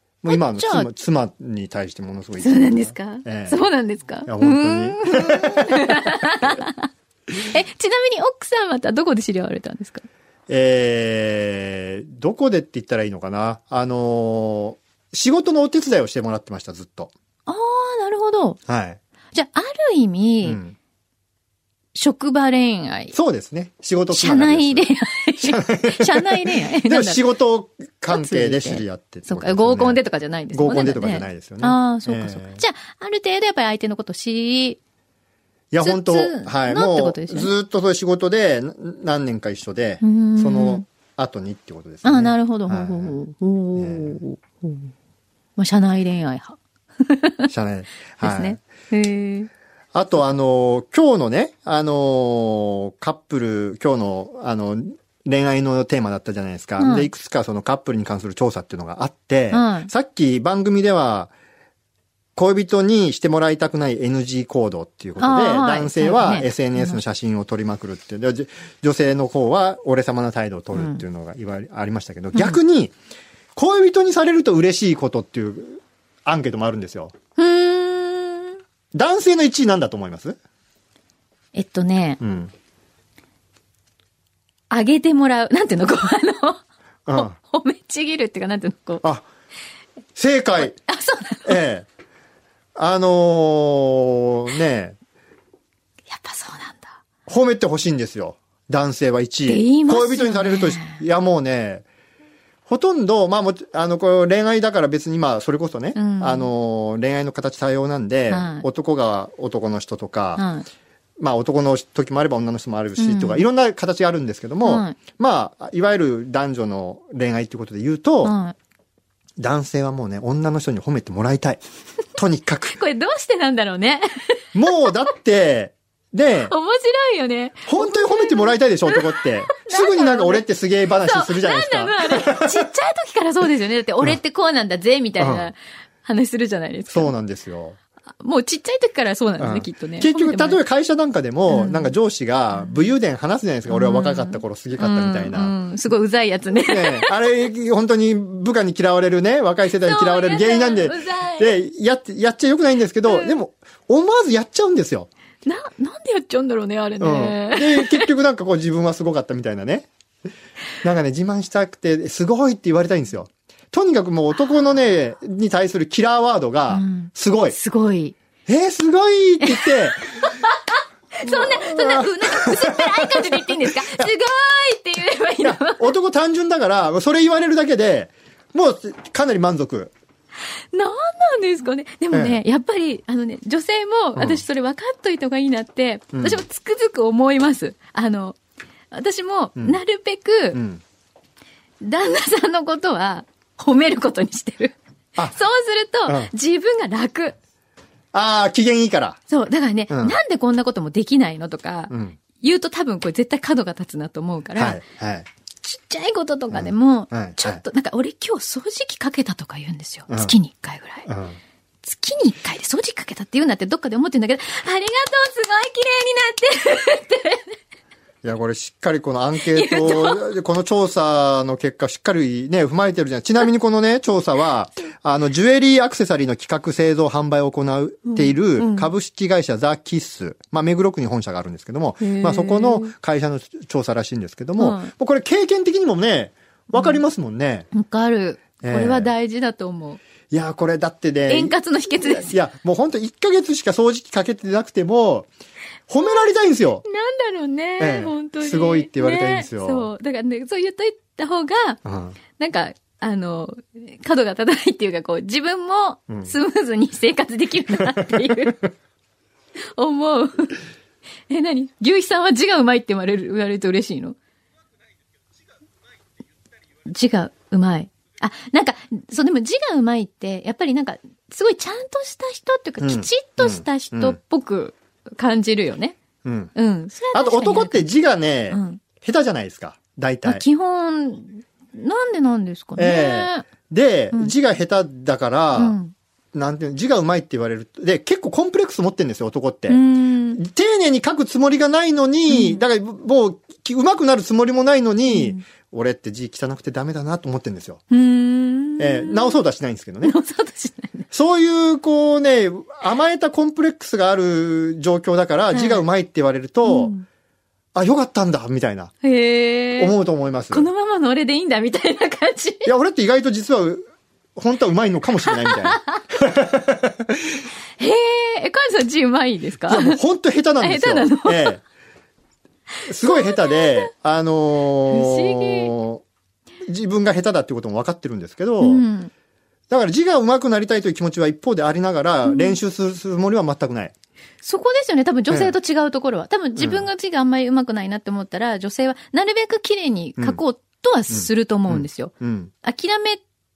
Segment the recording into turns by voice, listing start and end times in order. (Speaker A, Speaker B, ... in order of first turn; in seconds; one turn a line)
Speaker A: 0.2-3.6
Speaker B: 0.3-0.9
Speaker B: 2.4-10.0
Speaker A: 4.3-6.1
Speaker A: 10.5-17.1
Speaker B: 17.5-18.6
Speaker A: 18.7-19.0
Speaker B: 19.3-20.6
Speaker A: 20.4-20.8
Speaker B: 21.9-23.1
Speaker A: 23.1-24.9
Speaker B: 24.1-27.2
Speaker A: 25.4-30.0
Speaker B: 28.1-34.8
Speaker A: 30.5-32.6
Speaker A: 35.7-43.1
Speaker B: 35.8-37.5
Speaker B: 40.0-40.8
Speaker B: 42.0-44.9
Speaker A: 43.8-44.2
Speaker B: 45.6-47.5
Speaker A: 47.5-48.6
Speaker B: 48.2-49.5
Speaker A: 49.9-61.3
Speaker B: 56.8-57.1
Speaker B: 59.5-59.9
Speaker A: 62.4-72.9
Speaker B: 65.2-67.0
Speaker B: 70.7-71.0
Speaker A: 73.5-77.1
Speaker B: 77.4-78.6
Speaker A: 78.9-80.4
Speaker B: 81.5-82.2
Speaker A: 82.2-82.5
Speaker B: 84.7-89.0
Speaker A: 87.1-87.4
Speaker A: 90.2-90.8
Speaker B: 90.6-91.6
Speaker A: 91.4-91.9
Speaker A: 92.8-95.0
Speaker B: 96.1-97.0
Speaker A: 97.3-101.8
Speaker B: 99.5-101.0
Speaker A: 102.7-110.4
Speaker B: 105.9-106.5
Speaker B: 108.3-108.7
Speaker B: 110.4-110.7
Speaker A: 111.2-118.3
Speaker B: 113.0-113.4
Speaker B: 114.6-115.0
Speaker B: 118.2-118.5
Speaker A: 119.4-121.6
Speaker A: 122.1-122.8
Speaker B: 122.7-124.9
Speaker A: 124.5-126.5
Speaker B: 126.5-130.4
Speaker A: 127.7-132.7
Speaker B: 131.0-137.1
Speaker A: 135.2-135.5
Speaker A: 136.9-137.8
Speaker B: 138.2-140.6
Speaker A: 139.4-145.5
Speaker B: 141.5-141.9
Speaker B: 143.7-147.1
Speaker A: 146.7-155.1
Speaker B: 149.8-151.5
Speaker B: 153.1-153.4
Speaker B: 155.4-158.1
Speaker A: 157.0-159.9
Speaker A: 160.8-167.6
Speaker B: 166.7-168.2
Speaker A: 168.5-170.1
Speaker B: 169.4-170.6
Speaker B: 171.1-175.9
Speaker A: 171.2-174.1
Speaker A: 175.4-179.9
Speaker B: 180.7-188.4
Speaker A: 182.1-182.4
Speaker A: 184.2-184.4
Speaker A: 186.1-186.4
Speaker B: 188.9-190.6
Speaker A: 190.5-190.8
Speaker B: 191.8-197.3
Speaker A: 196.1-196.3
Speaker A: 198.1-199.2
Speaker B: 199.3-204.8
Speaker A: 199.9-200.2
Speaker A: 201.9-202.2
Speaker A: 204.6-205.3
Speaker B: 205.6-211.1
Speaker A: 206.5-207.6
Speaker A: 210.1-210.3
Speaker A: 211.1-211.4
Speaker B: 211.8-217.5
Speaker A: 218.2-237.7
Speaker B: 219.5-220.3
Speaker B: 228.1-228.9
Speaker B: 232.0-232.9
Speaker B: 234.6-234.9
Speaker B: 236.7-237.0
Speaker B: 237.7-240.0
Speaker A: 238.6-239.1
Speaker A: 240.3-245.3
Speaker B: 241.3-242.3
Speaker A: 245.9-246.8
Speaker B: 246.8-251.8
Speaker A: 247.8-249.9
Speaker A: 251.8-252.2
Speaker B: 252.4-258.6
Speaker A: 257.9-258.4
Speaker B: 259.8-260.6
Speaker B: 261.3-264.2
Speaker B: 266.9-276.0
Speaker A: 272.8-274.2
Speaker A: 276.2-276.5
Speaker B: 276.5-277.8
Speaker A: 277.1-280.4
Speaker B: 278.5-278.8
Speaker B: 280.2-283.5
Speaker A: 282.8-285.8
Speaker B: 285.6-285.9
Speaker A: 286.3-289.8
Speaker B: 289.7-290.4
Speaker A: 290.4-297.8
Speaker B: 292.3-292.6
Speaker B: 295.1-295.4
Speaker B: 297.9-299.4
Speaker A: 298.8-300.1
Speaker B: 300.0-301.1
Speaker A: 301.1-306.9
Speaker B: 305.5-305.8
Speaker B: 306.6-307.0
Speaker A: 307.7-308.9
Speaker B: 309.0-309.9
Speaker A: 309.8-310.7
Speaker B: 310.5-312.7
Speaker A: 312.6-317.4
Speaker B: 315.3-316.0
Speaker B: 317.8-320.0
Speaker A: 319.6-321.6
Speaker B: 320.6-321.6
Speaker A: 322.8-326.0
Speaker B: 323.0-323.9
Speaker B: 324.9-325.7
Speaker A: 326.6-328.8
Speaker B: 328.6-329.1
Speaker A: 329.7-333.9
Speaker B: 332.2-332.6
Speaker B: 334.4-343.2
Speaker A: 336.6-336.9
Speaker A: 341.1-342.5